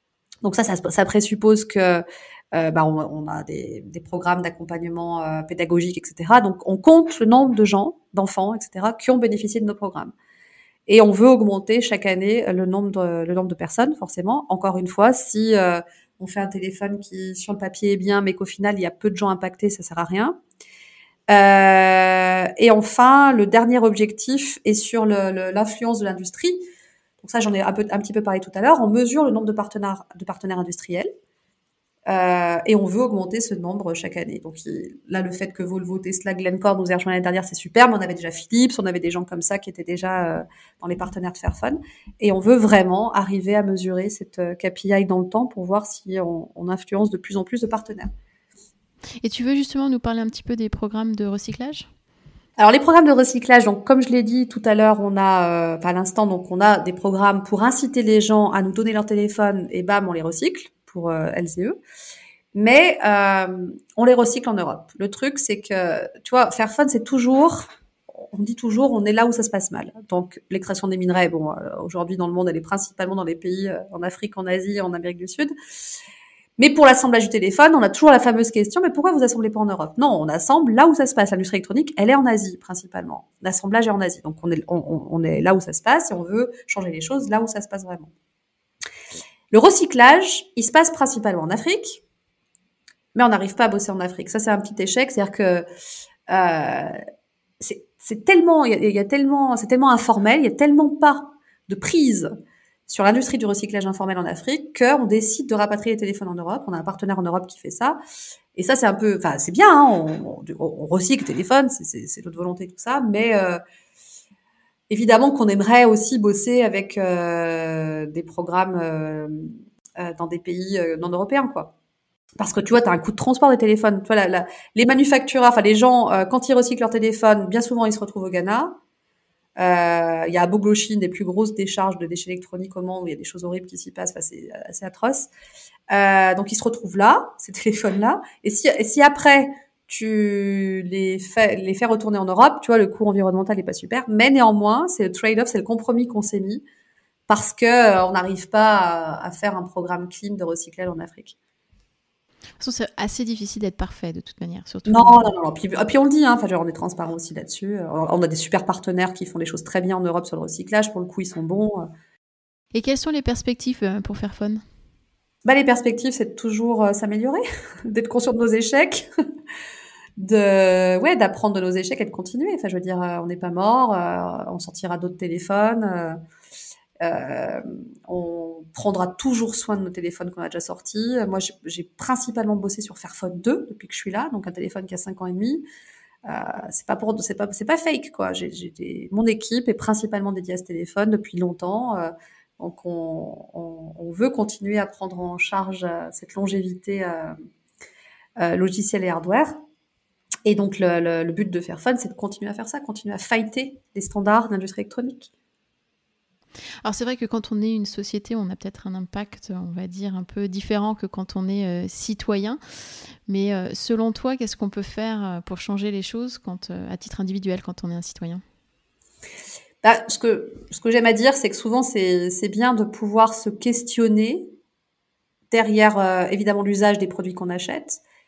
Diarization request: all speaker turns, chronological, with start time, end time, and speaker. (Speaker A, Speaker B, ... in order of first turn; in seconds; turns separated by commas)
Speaker A: 0.4-10.1, Speaker A: 10.9-20.4, Speaker A: 21.3-26.6, Speaker A: 27.2-31.1, Speaker A: 32.1-48.1, Speaker B: 49.2-51.9, Speaker A: 52.6-61.8, Speaker A: 62.5-75.5, Speaker A: 76.6-88.1, Speaker A: 89.5-92.0, Speaker A: 93.1-95.6, Speaker A: 96.3-97.0, Speaker A: 97.6-102.3, Speaker A: 102.9-108.0, Speaker A: 108.5-113.6, Speaker A: 114.9-121.7, Speaker A: 122.4-128.8, Speaker A: 129.6-135.3, Speaker A: 135.9-146.6, Speaker A: 147.3-151.3, Speaker B: 152.6-155.3, Speaker A: 154.9-161.9, Speaker B: 162.7-164.6, Speaker A: 165.4-169.1, Speaker A: 170.2-176.2, Speaker A: 177.0-185.6, Speaker A: 186.2-197.3, Speaker A: 198.4-199.5, Speaker A: 200.4-205.3, Speaker B: 206.8-212.6, Speaker B: 213.3-218.4, Speaker A: 219.8-224.5, Speaker A: 225.5-228.0